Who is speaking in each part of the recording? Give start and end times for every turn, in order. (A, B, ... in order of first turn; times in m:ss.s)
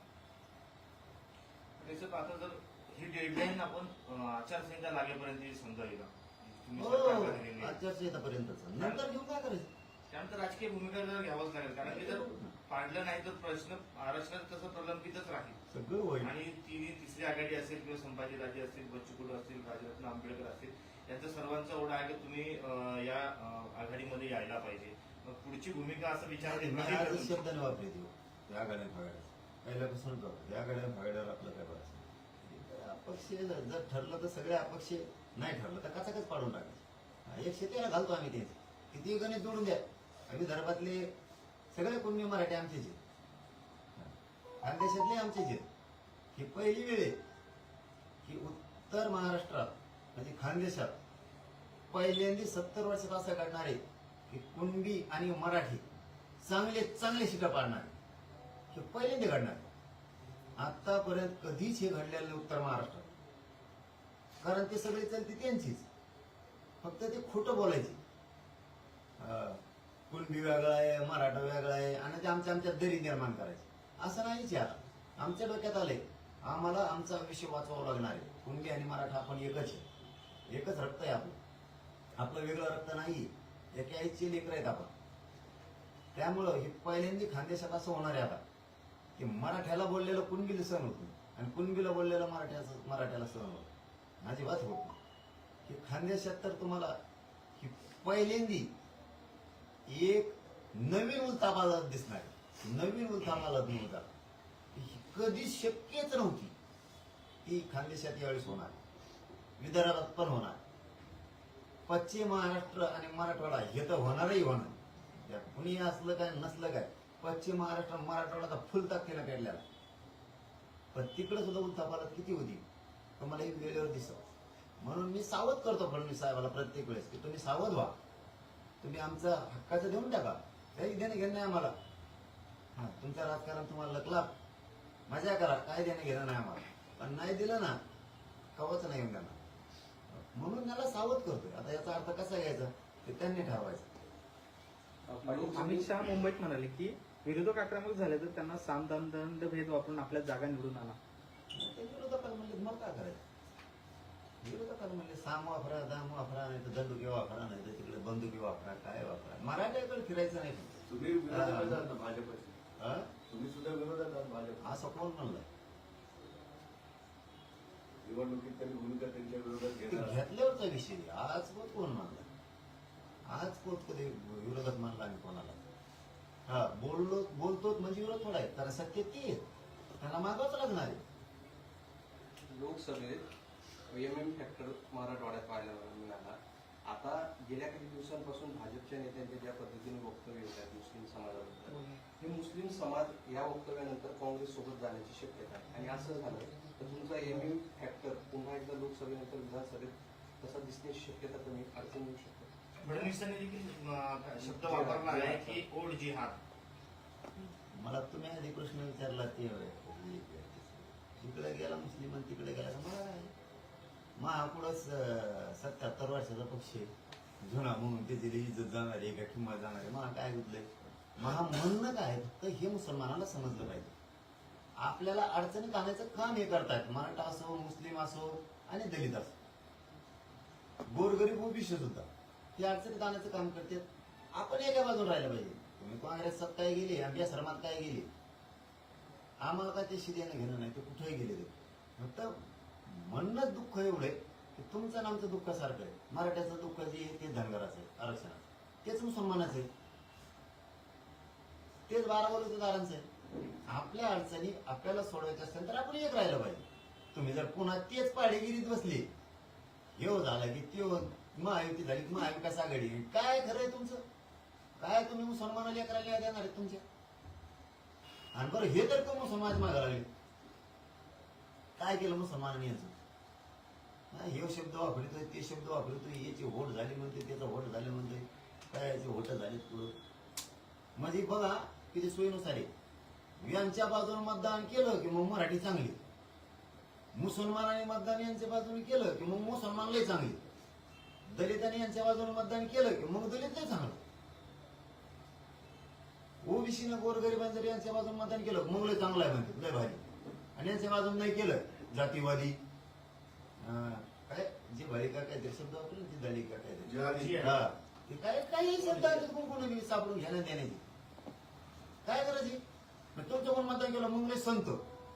0:01.8-0:07.8 A
0:06.8-0:09.7 B
0:08.8-0:09.0 A
0:10.1-0:15.6 A
0:11.8-0:12.6 B
0:15.7-0:16.3 B
0:16.2-0:27.4 A
0:26.4-0:41.1 B
0:41.7-0:43.0 B
0:44.0-0:45.7 B
0:46.3-0:47.2 B
0:48.2-0:51.0 B
0:51.9-0:55.8 B
0:56.4-0:57.9 B
0:58.7-0:59.7 B
1:00.6-1:03.1 B
1:04.4-1:05.9 B
1:06.8-1:08.0 B
1:09.2-1:19.9 B
1:20.5-1:21.4 B
1:22.2-1:24.9 B
1:26.1-1:28.4 B
1:29.2-1:33.7 B
1:34.2-1:35.0 B
1:35.6-1:37.0 B
1:37.6-1:38.7 B
1:39.9-1:44.1 B
1:44.7-1:46.5 B
1:47.4-1:48.8 B
1:49.6-1:50.6 B
1:51.9-1:59.6 B
2:00.9-2:02.6 B
2:03.2-2:04.2 B
2:04.8-2:08.0 B
2:08.8-2:11.8 B
2:12.8-2:14.3 B
2:15.1-2:17.8 B
2:18.6-2:19.4 B
2:20.1-2:23.9 B
2:25.1-2:25.9 C
2:25.3-2:31.0 D
2:31.5-2:33.2 B
2:34.4-2:41.9 B
2:40.9-2:42.6 E
2:42.8-2:43.1 B
2:43.3-2:44.7 E
2:44.6-2:45.5 B
2:48.0-2:50.2 E
2:49.9-2:52.3 B
2:53.3-2:55.6 B
2:56.5-2:59.4 B
3:00.0-3:01.0 B
3:02.5-3:03.2 C
3:03.9-3:23.1 C
3:22.8-3:26.4 A
3:24.4-3:25.6 C
3:27.4-3:33.3 B
3:34.2-3:43.9 B
3:44.8-3:49.4 B
3:50.8-3:58.1 B
3:59.4-4:09.7 B
4:11.9-4:13.1 B
4:13.7-4:19.1 B
4:20.0-4:24.0 B
4:24.8-4:26.8 B
4:28.3-4:30.1 B
4:31.8-4:33.0 B
4:34.1-4:39.9 B
4:41.0-4:42.7 B
4:43.4-4:46.0 B
4:47.2-4:50.4 B
4:51.3-4:54.0 B
4:56.4-5:00.0 B
5:00.6-5:02.6 B
5:03.6-5:10.8 B
5:06.9-5:07.5 E
5:07.1-5:07.6 A
5:12.0-5:12.6 B
5:13.2-5:14.8 B